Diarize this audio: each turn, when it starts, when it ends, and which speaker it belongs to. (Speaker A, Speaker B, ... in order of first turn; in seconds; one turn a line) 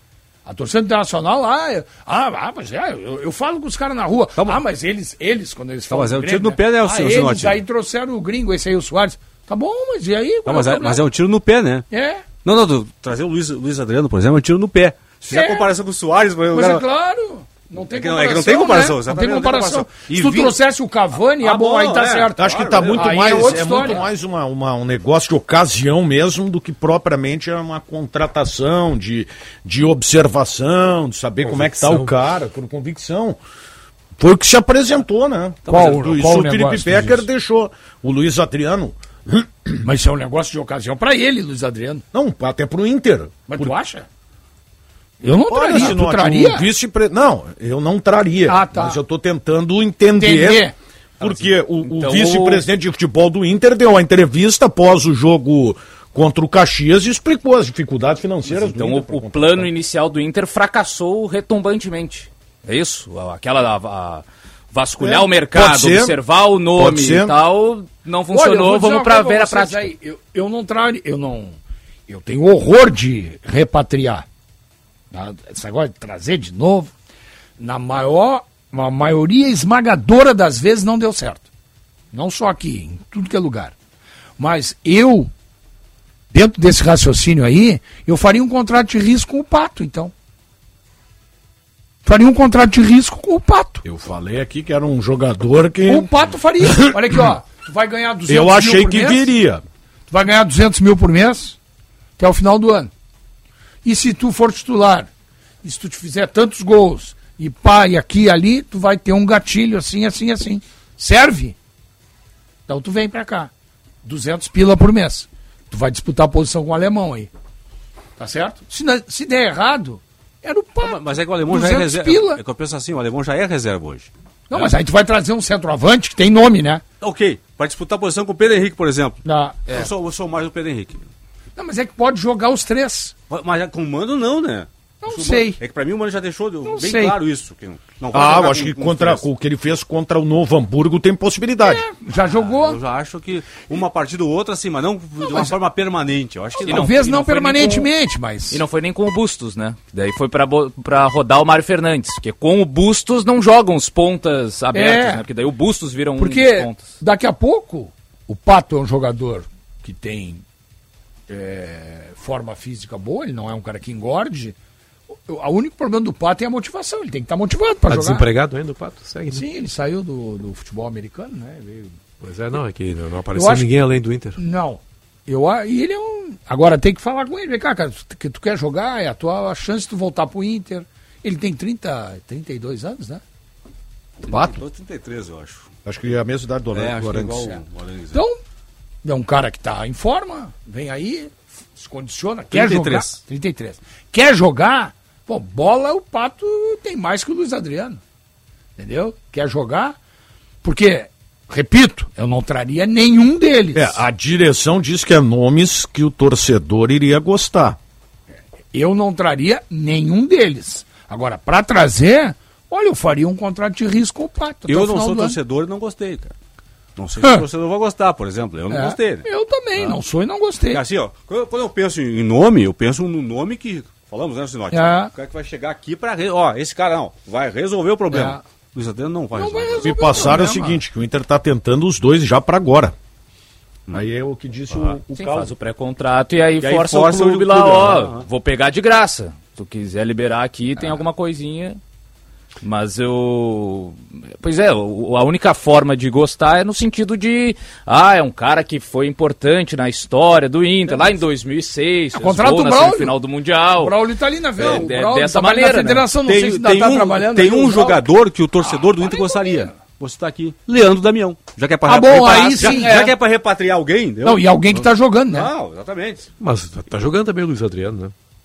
Speaker A: 0.5-11.1
Speaker B: 4.4-4.6
Speaker B: 5.9-7.6
Speaker B: 10.4-11.9
Speaker A: 11.9-12.3
Speaker B: 12.4-16.9
Speaker A: 15.3-15.7
Speaker A: 16.5-24.1
Speaker B: 17.9-20.6
Speaker B: 21.4-23.9
Speaker C: 22.4-33.4
Speaker D: 31.4-32.1
Speaker C: 34.2-39.9
Speaker A: 35.7-37.2
Speaker A: 39.8-42.0
Speaker C: 42.1-43.8
Speaker A: 43.5-44.1
Speaker A: 45.2-46.7
Speaker C: 45.5-59.7
Speaker A: 48.5-49.0
Speaker A: 50.2-50.7
Speaker E: 51.3-52.6
Speaker E: 58.5-69.9
Speaker C: 65.0-67.3
Speaker A: 68.3-74.3
Speaker A: 75.1-76.9
Speaker A: 77.6-81.5
Speaker A: 82.1-83.7
Speaker A: 84.4-85.3
Speaker A: 86.3-90.1
Speaker A: 92.0-93.8
Speaker C: 93.8-96.1
Speaker A: 95.9-99.3
Speaker C: 96.6-97.2
Speaker C: 98.3-99.6
Speaker A: 100.1-101.6
Speaker A: 102.2-102.9
Speaker A: 103.8-105.1
Speaker A: 105.6-111.6
Speaker A: 112.7-113.5
Speaker A: 114.0-117.3
Speaker A: 118.2-122.4
Speaker B: 120.8-124.7
Speaker A: 124.5-126.8
Speaker B: 127.0-131.1
Speaker A: 129.2-129.8
Speaker A: 131.6-133.1
Speaker B: 133.3-139.2
Speaker A: 135.0-135.6
Speaker A: 136.7-137.2
Speaker C: 138.1-141.8
Speaker A: 141.6-142.8
Speaker B: 142.4-147.2
Speaker A: 145.3-145.5
Speaker A: 146.6-148.6
Speaker E: 146.7-147.9
Speaker E: 148.5-157.0
Speaker A: 154.7-155.2
Speaker A: 156.2-160.4
Speaker A: 161.3-164.6
Speaker A: 165.3-168.3
Speaker D: 167.9-169.4
Speaker A: 169.3-172.0
Speaker D: 172.2-174.4
Speaker A: 173.3-173.8
Speaker A: 174.4-183.2
Speaker B: 184.2-185.7
Speaker A: 184.3-184.5
Speaker C: 185.8-187.6
Speaker B: 186.7-188.2
Speaker A: 188.1-188.4
Speaker A: 189.0-198.0
Speaker B: 192.5-193.2
Speaker A: 198.8-200.0
Speaker A: 200.6-204.0
Speaker C: 203.8-207.8
Speaker A: 208.7-215.4
Speaker B: 214.7-216.3
Speaker B: 217.0-220.0
Speaker A: 218.7-220.8
Speaker B: 220.7-230.4
Speaker A: 224.7-225.1
Speaker A: 228.1-228.4
Speaker A: 229.3-230.8
Speaker C: 229.8-232.9
Speaker C: 233.9-235.5
Speaker E: 235.1-241.8
Speaker B: 236.6-238.3
Speaker E: 242.6-254.0
Speaker A: 252.2-253.2
Speaker A: 253.7-258.1
Speaker E: 254.6-256.1
Speaker B: 256.2-264.8
Speaker A: 258.6-259.7
Speaker A: 261.9-263.2
Speaker A: 264.2-265.5
Speaker B: 265.3-266.3
Speaker D: 266.4-268.1